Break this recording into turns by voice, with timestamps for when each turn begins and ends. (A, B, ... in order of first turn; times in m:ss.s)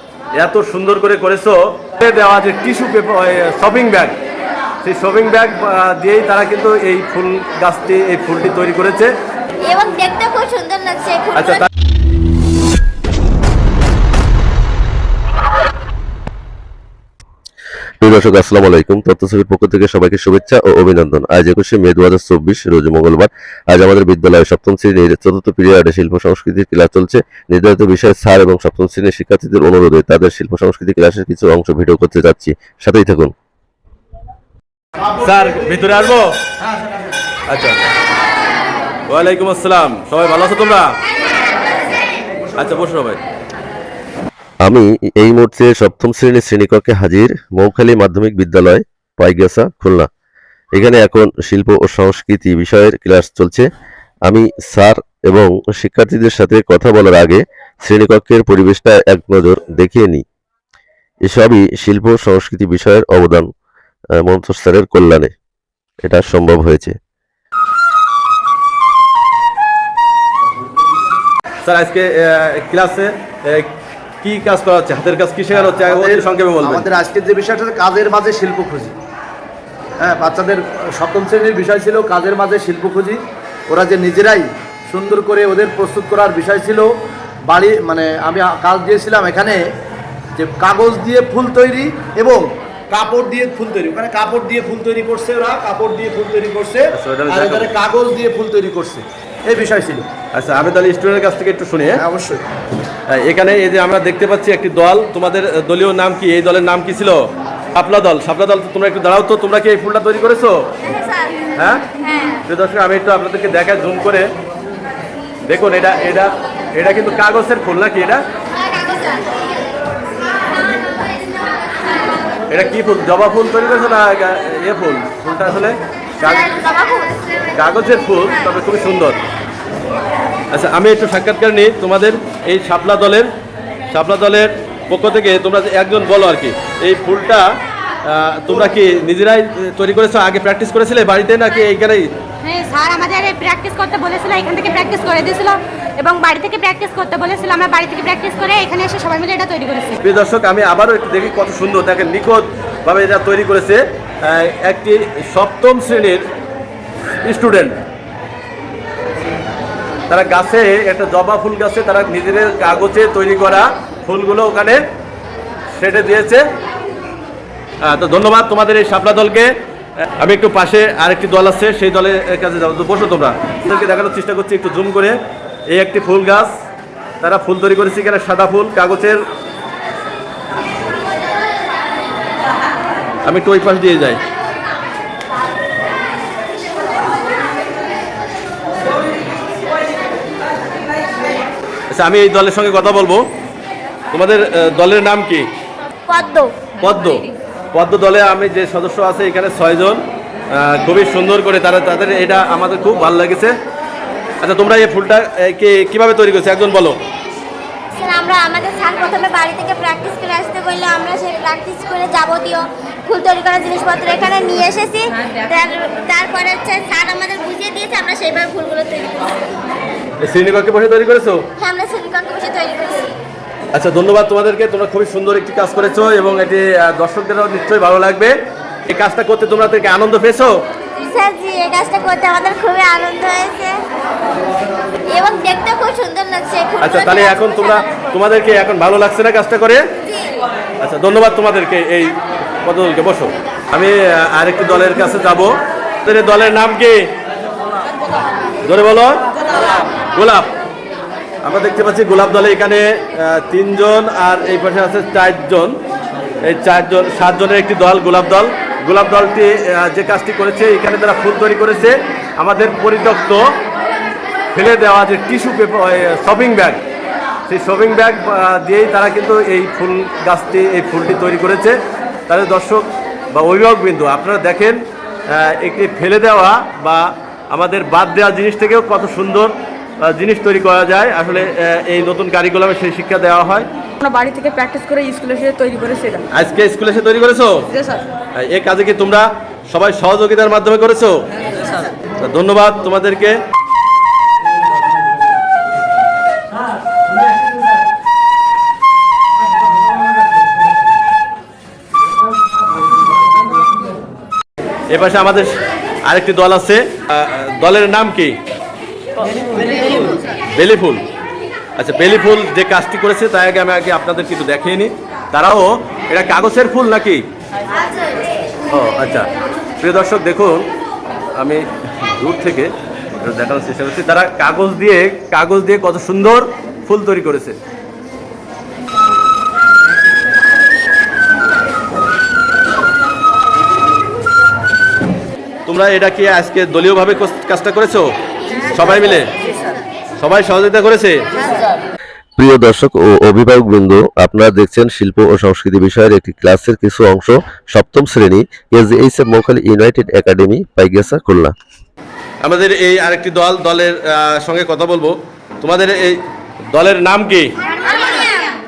0:00.4-0:04.1 A
0:04.8-0:09.1 A
0:09.6-0:11.6 B
0:11.3-0:11.6 A
0:18.0-0:33.3 C
0:35.2-0:36.3 A
0:37.5-0:37.8 A
0:39.1-0:40.9 A
0:42.6-0:43.2 A
0:44.6-0:50.1 C
0:50.7-0:53.7 C
0:54.3-1:00.2 C
1:01.2-1:03.5 C
1:04.2-1:05.3 C
1:06.0-1:07.0 C
1:11.6-1:13.7 A
1:14.2-1:16.9 A
1:15.9-1:18.9 D
1:20.0-1:23.2 D
1:23.7-1:26.8 D
1:27.5-1:29.6 D
1:30.4-1:32.4 D
1:32.9-1:36.8 D
1:36.9-1:37.7 A
1:37.3-1:40.0 D
1:40.3-1:42.0 A
1:42.0-1:42.4 D
1:43.1-1:47.2 A
1:47.7-1:50.7 A
1:51.6-1:51.9 A
1:52.0-1:52.4 B
1:52.4-1:54.3 A
1:55.4-1:58.2 A
2:02.5-2:06.6 A
2:06.3-2:07.5 B
2:07.5-2:09.2 A
2:10.5-2:13.3 A
2:13.9-2:17.4 A
2:18.0-2:22.1 A
2:22.4-2:30.0 E
2:30.0-2:36.2 A
2:37.2-2:37.8 A
2:40.1-2:44.8 A
2:45.7-2:46.4 A
2:47.8-2:49.5 A
2:50.2-2:55.2 A
2:55.7-2:56.5 A
2:57.2-2:59.2 A
3:03.2-3:04.2 A
3:11.9-3:13.2 A
3:14.1-3:15.5 A
3:16.1-3:16.5 B
3:16.8-3:20.0 A
3:20.5-3:23.5 A
3:24.4-3:27.0 A
3:28.0-3:39.4 B
3:40.2-3:41.4 A
3:41.6-3:43.1 B
3:43.7-3:48.3 A
3:48.9-3:50.6 A
3:51.0-3:53.8 B
3:55.1-3:57.8 B
3:56.8-3:59.8 A
4:00.0-4:00.4 B
4:00.8-4:07.1 A
4:08.6-4:09.2 A
4:10.1-4:10.5 A
4:11.4-4:15.8 A
4:16.4-4:23.4 A
4:24.5-4:26.8 A
4:27.5-4:43.7 A
4:44.0-4:46.2 F
4:46.3-4:47.7 A
4:48.4-4:53.4 A
5:04.9-5:05.5 A
5:06.0-5:08.4 A
5:10.5-5:11.0 A
5:11.8-5:17.2 A
5:18.7-5:19.3 A
5:19.8-5:20.7 A
5:21.4-5:27.6 A
5:35.7-5:38.1 A
5:38.6-5:39.3 A
5:40.2-5:41.2 A
5:42.4-5:51.5 C
5:52.4-5:56.2 A
5:56.7-5:57.6 A
5:57.9-5:58.3 B